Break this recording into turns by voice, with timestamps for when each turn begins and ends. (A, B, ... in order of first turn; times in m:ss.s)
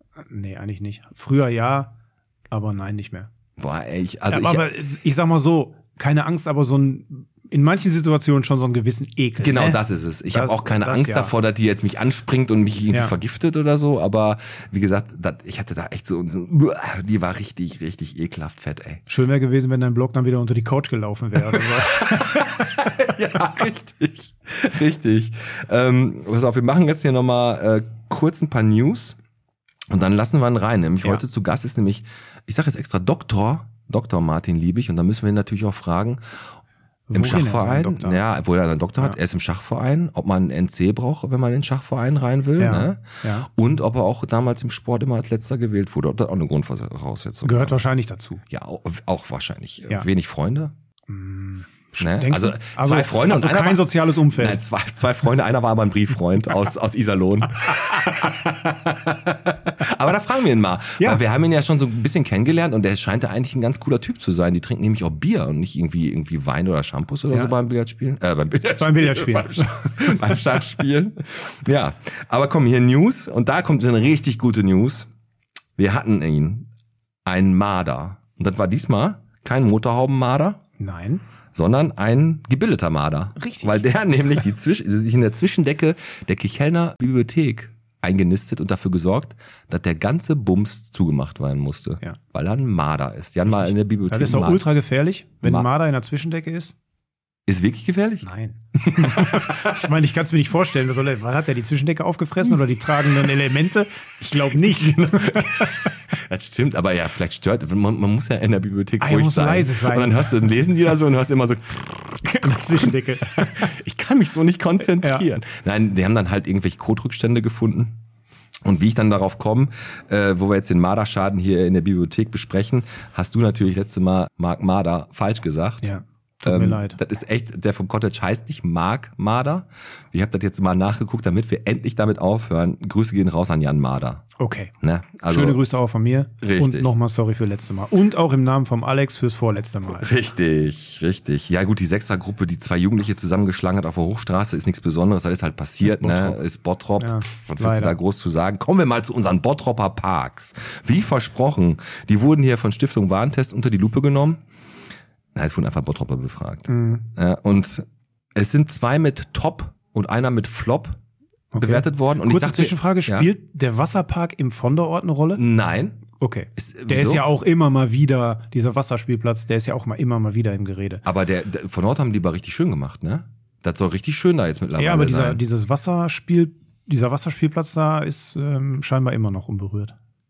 0:00.3-0:01.9 A
0:02.5-0:03.3 A
0:03.6-0:04.6 B
0:04.3-0:11.3 A
0:09.4-0:19.0 B
0:19.1-0:22.6 A
0:21.5-0:29.2 B
0:29.9-0:36.2 B
0:37.1-0:38.2 A
0:37.1-0:47.8 B
0:42.6-0:43.5 A
0:47.4-0:48.4 A
0:48.5-0:50.7 B
0:51.1-0:54.6 A
0:52.0-1:15.1 B
1:08.7-1:10.2 A
1:15.8-1:16.7 B
1:17.2-1:20.6 B
1:20.8-1:21.2 A
1:21.5-1:34.6 B
1:23.4-1:23.8 A
1:33.5-1:36.7 A
1:35.4-1:35.7 B
1:37.5-1:38.2 B
1:38.2-1:45.9 A
1:38.8-1:39.8 B
1:44.6-1:58.0 B
1:49.0-1:50.4 A
1:52.2-1:53.7 A
1:55.0-1:55.2 A
1:58.6-2:05.9 B
2:05.8-2:07.0 A
2:06.4-2:14.2 B
2:14.4-2:14.7 A
2:14.8-2:15.6 B
2:15.3-2:20.1 A
2:16.4-2:16.9 B
2:19.9-2:34.4 B
2:25.8-2:26.4 A
2:27.0-2:28.0 A
2:35.3-2:41.0 B
2:36.7-2:37.0 A
2:41.5-2:45.4 A
2:41.5-2:43.3 B
2:45.3-2:46.0 B
2:46.2-2:51.0 A
2:46.6-2:47.3 B
2:51.0-2:55.4 B
2:54.8-2:59.9 A